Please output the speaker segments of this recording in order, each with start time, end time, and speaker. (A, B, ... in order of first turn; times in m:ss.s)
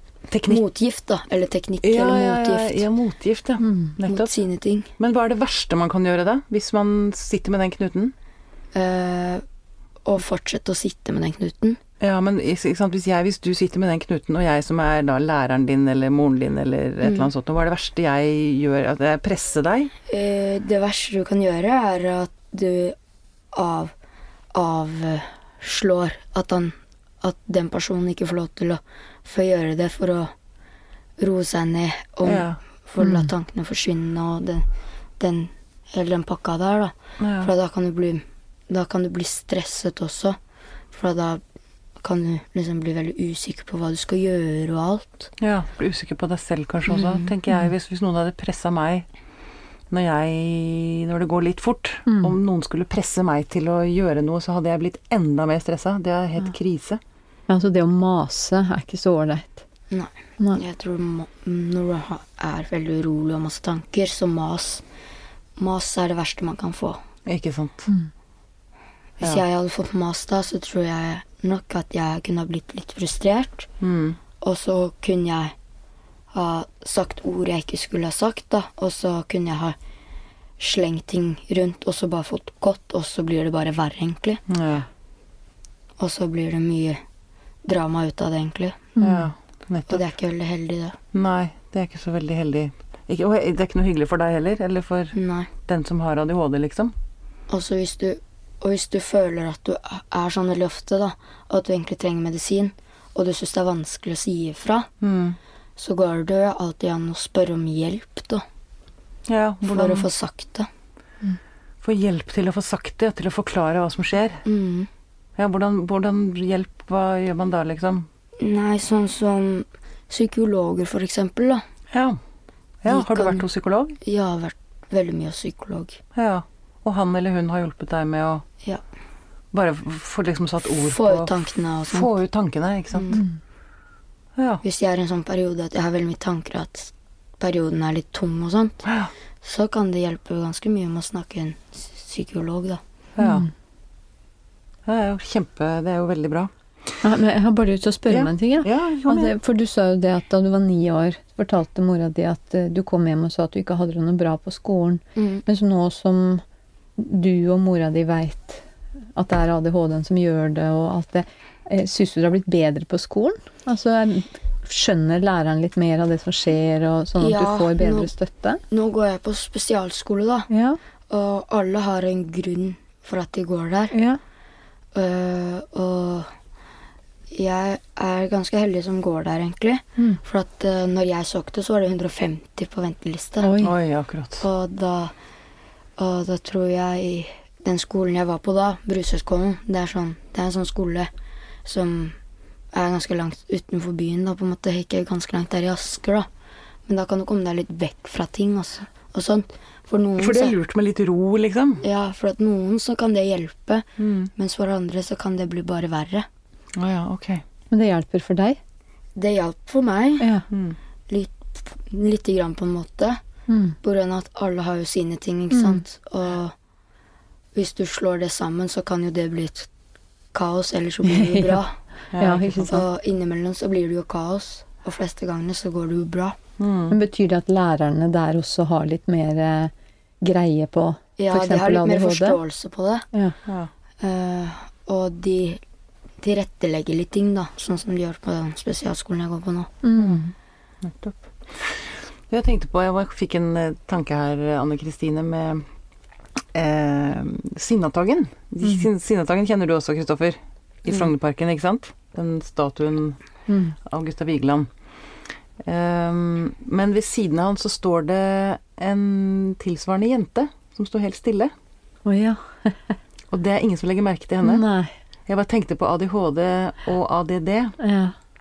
0:00.3-0:00.6 A
0:00.5-0:02.8 B
0:01.8-0:04.3 A
0:03.6-0:03.9 C
0:04.0-0:04.9 B
0:05.0-0:08.1 A
0:08.7-0:09.4 B
0:10.0-0:11.8 B
0:12.0-0:19.9 A
0:17.0-0:17.3 B
0:20.1-0:23.0 B
0:23.5-0:23.9 B
0:24.5-0:30.3 B
0:31.2-0:34.6 B
0:32.2-0:32.6 A
0:33.0-0:33.3 C
0:35.2-0:40.4 B
0:37.2-0:37.5 A
0:40.9-0:41.4 B
0:42.0-0:45.3 B
0:45.4-0:49.0 A
0:49.9-0:57.0 A
0:52.1-0:52.4 C
0:57.5-0:59.6 C
0:59.9-1:04.8 B
1:05.6-1:07.0 B
1:07.2-1:07.9 A
1:09.2-1:13.7 B
1:13.8-1:14.2 A
1:14.4-1:15.5 B
1:16.3-1:19.7 B
1:20.6-1:24.4 B
1:24.5-1:24.9 A
1:26.0-1:27.0 B
1:27.6-1:28.9 B
1:29.0-1:29.3 C
1:29.0-1:30.0 A
1:29.9-1:31.0 B
1:31.1-1:35.1 A
1:35.1-1:35.5 B
1:35.6-1:36.9 A
1:37.5-1:44.9 B
1:45.0-1:45.4 A
1:45.8-1:48.4 B
1:49.3-1:50.1 A
1:49.7-1:50.7 B
1:51.8-1:54.4 A
1:54.4-1:54.9 B
1:55.4-1:58.1 A
1:58.4-2:01.6 B
2:01.9-2:02.2 A
2:02.8-2:04.0 A
2:02.8-2:03.5 B
2:04.0-2:06.0 B
2:06.1-2:08.4 A
2:09.5-2:11.3 A
2:10.8-2:12.1 B
2:11.9-2:13.2 A
2:12.9-2:13.2 B
2:14.4-2:14.6 A
2:14.6-2:18.8 B
2:18.8-2:19.1 A
2:19.4-2:22.8 B
2:23.2-2:23.4 A
2:23.2-2:23.5 C
2:24.8-2:26.5 A
2:27.0-2:36.4 C
2:28.1-2:29.3 A
2:35.2-2:35.4 B
2:37.0-2:38.6 C
2:39.1-2:48.6 C
2:47.2-2:48.1 B
2:48.7-2:50.5 B
2:50.5-2:50.8 C
2:51.1-2:53.9 B
2:53.9-2:54.2 C
2:54.9-2:56.3 B
2:57.3-3:03.5 B
3:03.4-3:03.7 C
3:03.6-3:04.4 A
3:04.4-3:05.1 B
3:06.0-3:11.1 B
3:11.6-3:12.1 B
3:12.7-3:16.3 B
3:16.9-3:20.5 B
3:20.2-3:21.8 A
3:21.8-3:26.2 B
3:24.0-3:24.3 A
3:26.7-3:27.4 A
3:27.7-3:28.6 C
3:29.2-3:30.3 B
3:30.2-3:30.4 C
3:30.5-3:30.8 A
3:31.1-3:33.2 B
3:33.5-3:33.7 C
3:33.8-3:36.5 B
3:35.5-3:35.8 C
3:37.5-3:39.7 B
3:40.3-3:41.8 B
3:41.0-3:41.6 C
3:42.1-3:42.5 A
3:42.2-3:42.8 C
3:42.5-3:46.4 B
3:46.6-3:46.9 A
3:46.9-3:52.4 C
3:51.2-3:53.1 B
3:53.4-3:53.7 A
3:54.0-3:55.6 B
3:56.2-3:59.7 B
3:59.8-4:00.3 C
4:00.8-4:05.6 A
4:06.5-4:13.2 A
4:13.5-4:13.7 C
4:13.8-4:14.7 A
4:15.6-4:21.5 A
4:22.0-4:23.0 C
4:23.3-4:24.6 A
4:24.4-4:24.9 C
4:25.3-4:27.7 A
4:27.8-4:28.1 C